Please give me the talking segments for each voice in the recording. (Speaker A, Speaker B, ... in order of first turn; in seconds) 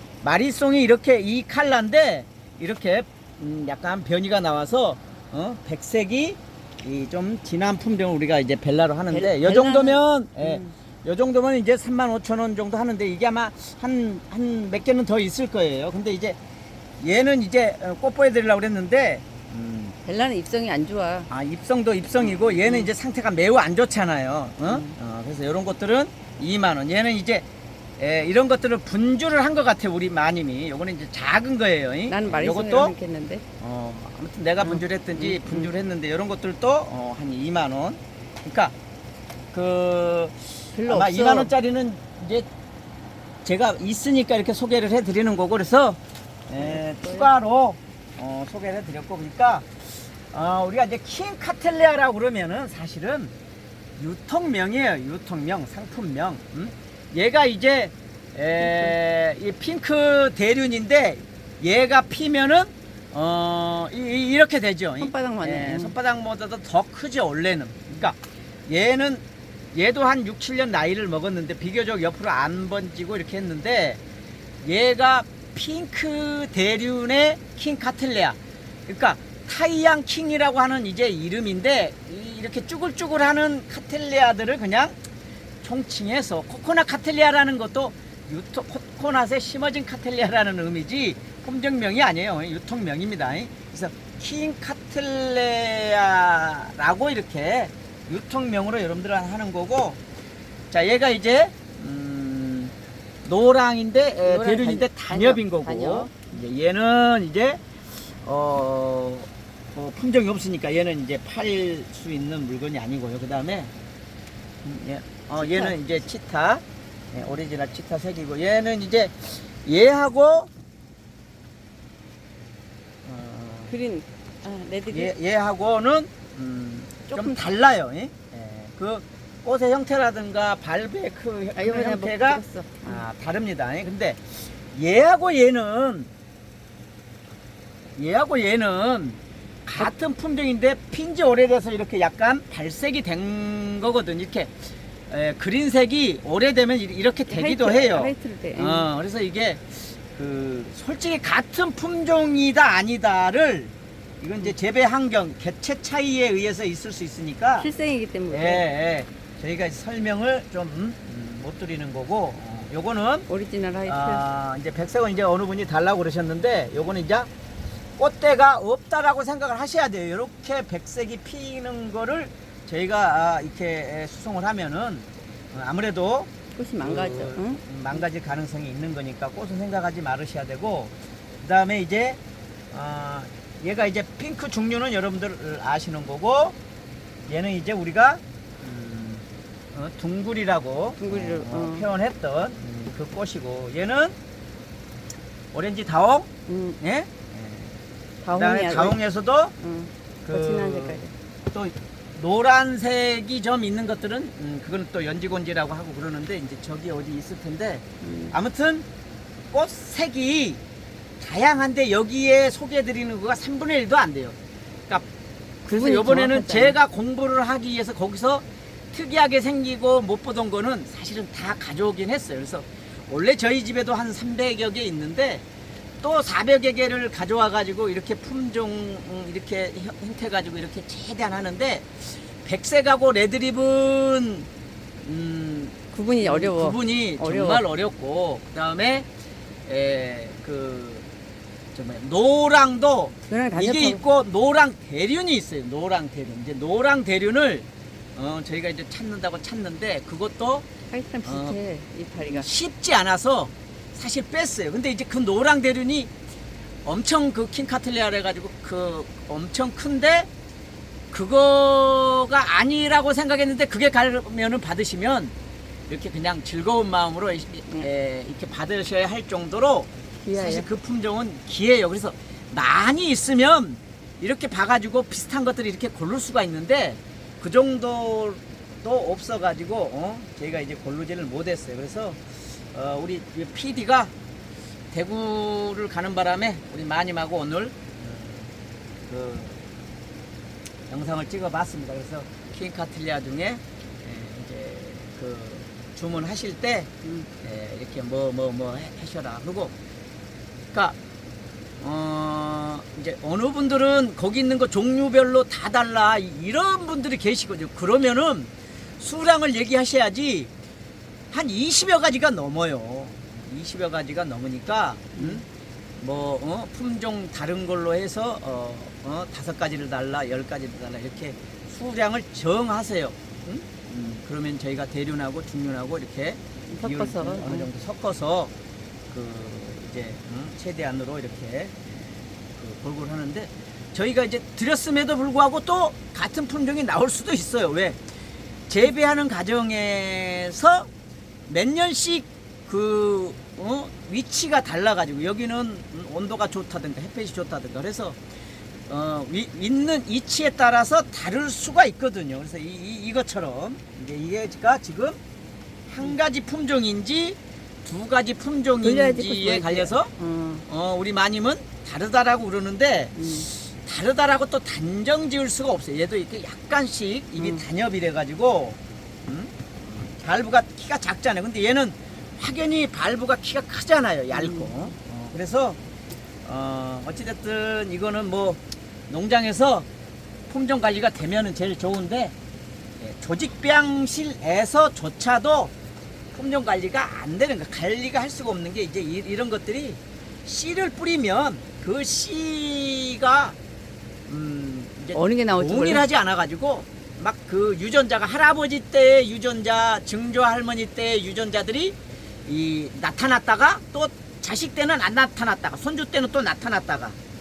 Speaker A: 0.2-16.4, 17.0-19.9, 21.3-27.5, 28.0-32.9, 33.6-38.7, 39.5-42.5, 43.4-49.7, 50.3-53.3, 54.0-68.2, 68.7-69.2, 69.7-74.0, 74.6-85.0, 85.6-100.0, 100.7-102.7, 103.2-113.7, 114.6-120.5, 123.0-123.8, 124.9-136.1, 138.0-144.5, 145.1-157.7, 158.3-163.3, 163.9-167.3, 168.0-176.3, 176.8-182.2, 182.7-186.6, 187.3-194.2, 195.5-196.3, 196.8-197.8, 198.4-199.5, 200.2-208.8, 209.5-210.6, 211.2-214.4, 215.7-225.4, 226.0-234.5, 235.1-239.1, 239.7-241.1, 241.7-250.7, 251.2-251.6, 252.2-256.1, 256.9-260.3, 261.1-265.3, 265.9-282.2, 282.7-284.1, 284.9-288.5, 289.1-289.6, 290.9-299.7, 301.8-310.5, 311.3-315.4, 316.0-328.5, 329.1-331.7, 332.6-338.0, 338.7-340.9, 341.5-348.2, 348.9-355.2, 355.9-360.1, 360.7-375.8, 376.4-379.9, 380.5-382.4, 383.0-385.7, 386.3-393.6, 394.3-407.2
Speaker B: 9.1-10.7, 20.0-21.3, 22.2-22.9, 24.6-24.9, 32.1-33.4, 34.6-35.7, 40.8-41.5, 46.6-47.3, 58.6-59.0, 65.0-66.0, 104.2-106.2, 115.3-115.9, 123.7-125.1, 127.1-127.5, 131.6-133.0, 147.3-148.9, 157.6-158.7, 163.3-164.2, 176.6-177.6, 191.0-191.9, 196.5-196.8, 198.2-199.0, 199.6-201.1, 208.0-208.4, 215.7-216.8, 235.9-237.6, 243.3-244.0, 250.9-252.5, 270.2-270.7, 315.1-315.4, 326.7-327.7, 358.8-360.6, 363.2-363.5, 367.4-367.6, 374.3-374.9, 395.1-396.1